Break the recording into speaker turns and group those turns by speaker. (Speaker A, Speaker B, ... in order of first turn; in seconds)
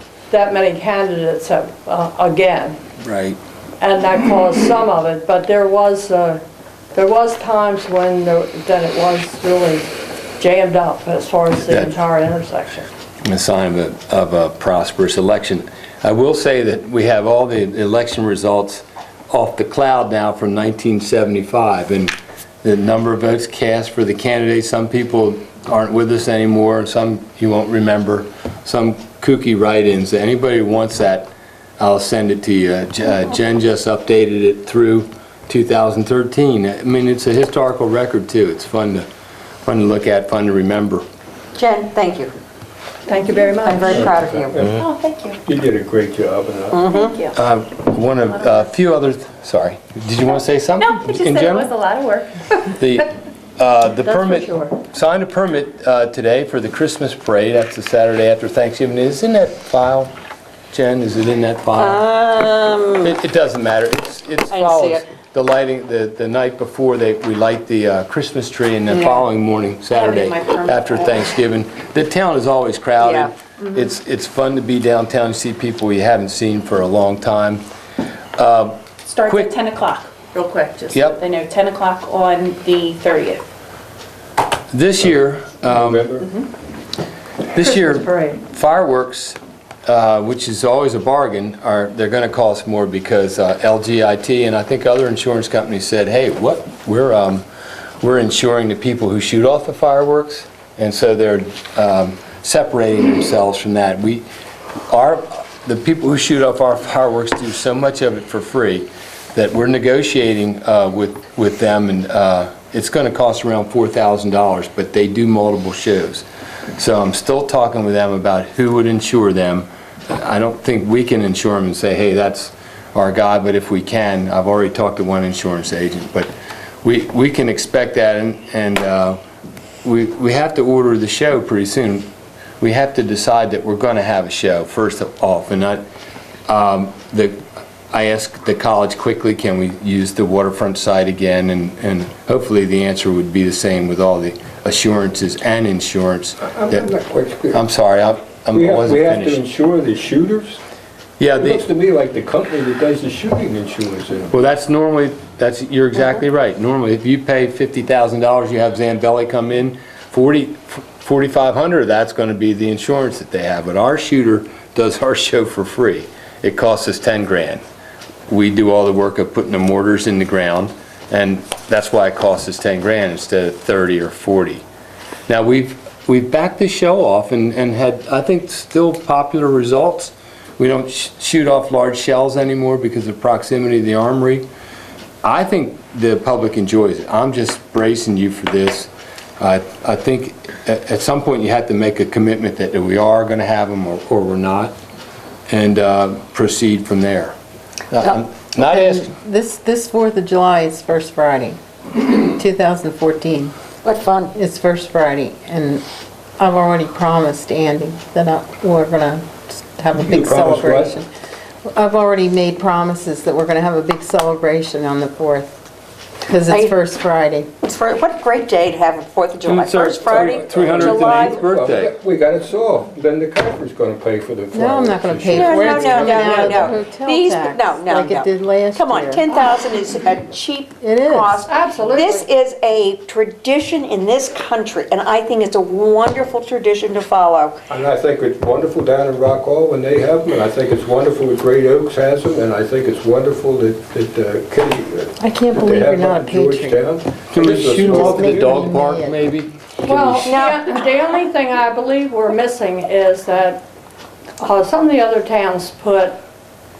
Speaker A: 0.3-2.8, 3.8-6.4, 6.9-12.9, 43.1-44.1, 54.0-54.7, 87.6-88.4, 231.4-232.3, 249.8-253.6, 254.4-256.2
Speaker B: 3.0-3.4, 11.7-12.0, 13.2-39.0, 39.6-41.0, 47.3-51.7, 52.7-60.1, 60.7-62.0, 63.0-77.6, 78.4-79.6, 80.9-81.2, 84.7-86.2, 87.5-97.4, 98.0-104.3, 104.9-116.2, 116.8-126.3, 126.8-129.2, 129.8-132.1, 132.6-135.8, 136.5-146.9, 147.5-149.4, 151.2-151.6, 154.3-167.6, 168.3-174.6, 175.3-184.5, 185.2-188.9, 189.4-194.8, 195.5-197.3, 197.9-199.1, 219.4-221.9, 247.3-250.3
Speaker C: 41.5-42.3, 43.6-44.8, 46.7-47.2, 61.8-63.1, 64.5-65.0, 68.9-69.3, 69.9-71.3, 73.0-73.3, 203.8-204.3, 216.5-216.8, 217.6-221.4, 225.3-237.6, 250.2-250.8
Speaker D: 43.8-44.8, 45.4-46.9, 85.7-86.3, 146.4-147.6, 148.5-150.6, 151.3-154.3, 210.0-210.9, 220.0-226.6, 237.7-248.7
Speaker E: 44.7-45.4, 46.9-47.4, 50.8-52.4, 79.1-83.4
Speaker F: 198.6-203.5, 204.3-205.8, 206.4-211.1, 211.7-215.6, 216.2-217.5, 224.5-229.3, 230.8-231.4, 245.2-246.9, 247.7-249.2